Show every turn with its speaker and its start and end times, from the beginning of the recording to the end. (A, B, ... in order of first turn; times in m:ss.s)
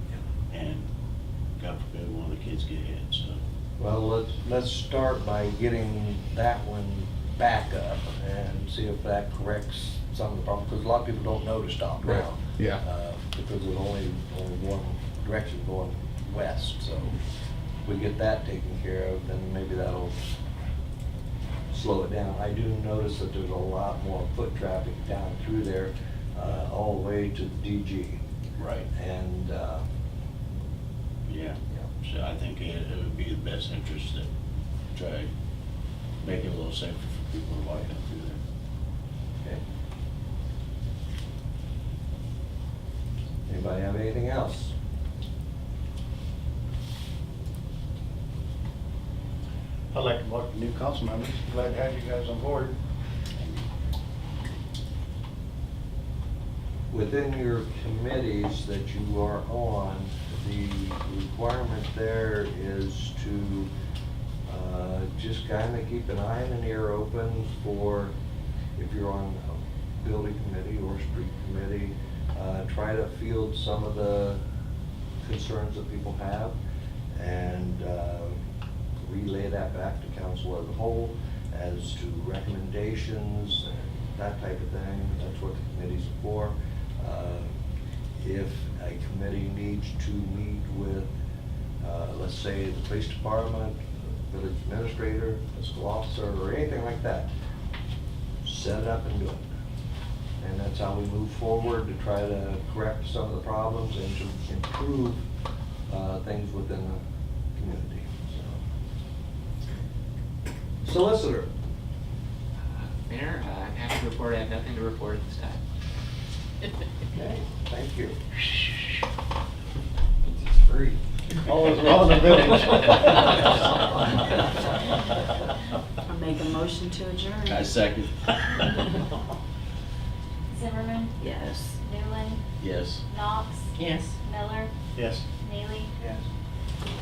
0:00.5-0:00.9 A
0:01.6-0:03.4 A
0:03.8-0:17.2 B
0:17.8-0:20.2 B
0:21.7-0:28.2 B
0:28.6-0:28.9 A
0:28.9-0:29.9 B
0:31.3-0:34.3 A
0:34.9-0:35.3 A
0:36.2-0:38.4 A
0:43.5-0:44.7 B
0:49.9-0:52.8 C
0:56.9-1:03.7 B
1:04.5-1:08.2 B
1:08.8-1:14.4 B
1:15.2-1:16.6 B
1:17.1-1:18.4 B
1:19.0-1:27.5 B
1:28.2-1:31.1 B
1:31.8-1:37.3 B
1:38.4-1:39.5 B
1:40.4-1:45.2 B
1:45.9-1:47.0 B
1:47.6-1:48.6 B
1:50.8-1:51.5 B
1:52.7-1:55.6 D
1:57.1-1:58.2 B
2:01.5-2:03.7 C
2:06.1-2:07.7 E
2:07.5-2:08.8 A
2:10.5-2:11.2 F
2:11.2-2:11.8 E
2:11.8-2:12.4 F
2:12.6-2:13.0 A
2:13.1-2:13.7 F
2:14.2-2:14.7 F
2:15.4-2:15.9 F